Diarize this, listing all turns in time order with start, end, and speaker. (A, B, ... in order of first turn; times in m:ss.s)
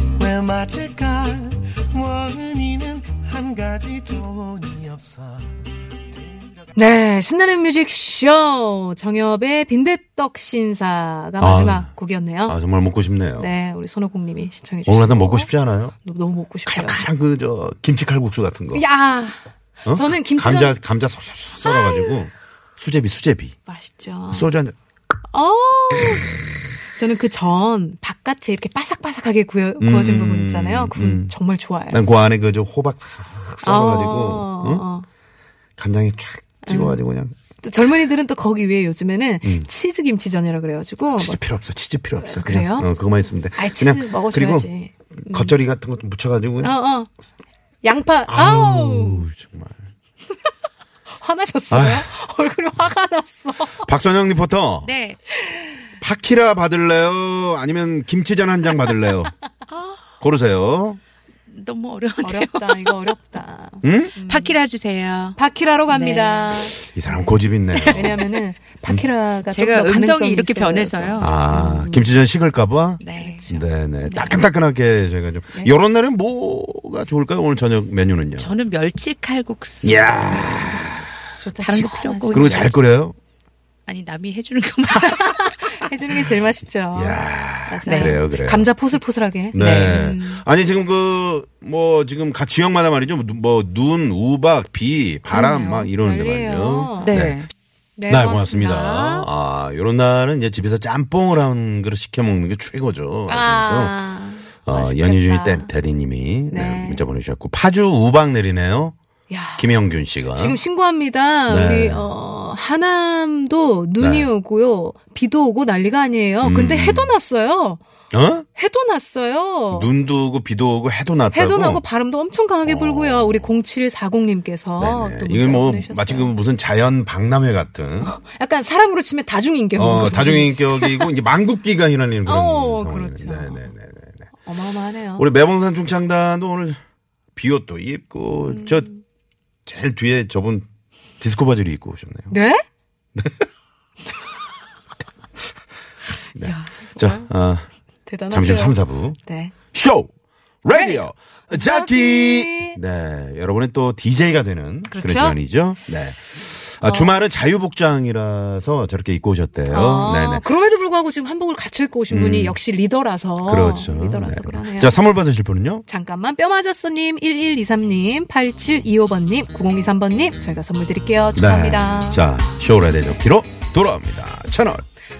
0:00.1-0:05.5 A
0:06.1-0:06.8 A
0:06.8-0:12.6 B
0:11.4-0:11.9 C
0:12.4-0:13.5 C
0:13.4-0:17.0 B
0:14.8-0:15.9 C
0:16.6-0:18.8 C
0:18.7-0:20.8 B
0:19.8-0:23.6 C
0:21.6-0:22.2 B
0:23.7-0:24.5 B
0:24.3-0:24.7 C
0:25.3-0:32.0 B
0:29.8-0:31.3 C
0:31.9-0:34.8 C
0:33.6-0:35.0 B
0:35.8-0:37.3 C
0:36.6-0:37.0 B
0:37.6-0:41.4 B
0:39.4-0:39.7 C
0:41.2-0:46.7 C
0:42.2-0:42.9 B
0:43.6-0:45.5 B
0:46.6-0:47.1 B
0:47.8-0:49.3 B
0:48.3-0:49.8 C
0:51.2-0:53.8 B
0:51.7-0:52.1 C
0:53.8-0:54.9 C
0:54.8-0:55.2 D
0:55.4-0:55.7 B
0:56.0-0:59.3 C
0:59.7-1:00.0 D
1:00.2-1:01.0 C
1:01.5-1:03.0 D
1:02.2-1:04.6 B
1:03.8-1:04.1 C
1:04.2-1:06.6 D
1:05.4-1:12.1 B
1:06.8-1:08.3 C
1:09.5-1:11.3 D
1:11.2-1:18.5 C
1:13.0-1:13.5 D
1:13.1-1:13.6 B
1:14.0-1:14.4 D
1:18.4-1:22.8 D
1:19.8-1:21.1 C
1:21.4-1:22.7 B
1:22.3-1:23.2 C
1:23.8-1:25.9 D
1:24.8-1:30.4 B
1:26.9-1:28.7 C
1:27.8-1:28.1 D
1:29.5-1:37.4 C
1:29.5-1:29.9 D
1:35.3-1:37.2 B
1:37.0-1:37.5 D
1:38.0-1:39.3 B
1:38.1-1:44.0 C
1:43.3-1:45.7 B
1:44.6-1:48.9 C
1:46.5-1:47.0 B
1:49.3-1:57.8 B
1:49.6-1:50.6 C
1:51.5-1:52.1 C
1:54.0-1:54.3 C
1:56.4-1:57.2 C
1:58.1-1:58.4 C
1:58.5-1:59.9 B
1:59.7-2:01.8 C
2:01.3-2:06.3 B
2:02.6-2:03.5 C
2:04.8-2:08.1 C
2:08.0-2:11.1 B
2:09.8-2:14.2 C
2:12.2-2:13.7 B
2:14.4-2:15.2 B
2:15.2-2:16.8 C
2:17.3-2:18.9 C
2:18.4-2:19.0 B
2:19.6-2:20.6 C
2:21.2-2:22.3 C
2:22.3-2:22.6 B
2:23.2-2:23.4 C
2:26.3-2:27.6 C
2:26.4-2:27.3 B
2:28.0-2:29.5 B
2:28.3-2:29.2 C
2:29.7-2:30.1 C
2:30.6-2:40.4 C
2:30.7-2:32.8 B
2:34.9-2:35.4 B
2:36.8-2:37.1 B
2:39.7-2:45.0 B
2:42.1-2:42.6 C
2:43.4-2:45.8 C
2:45.9-2:52.2 B
2:51.4-2:54.8 C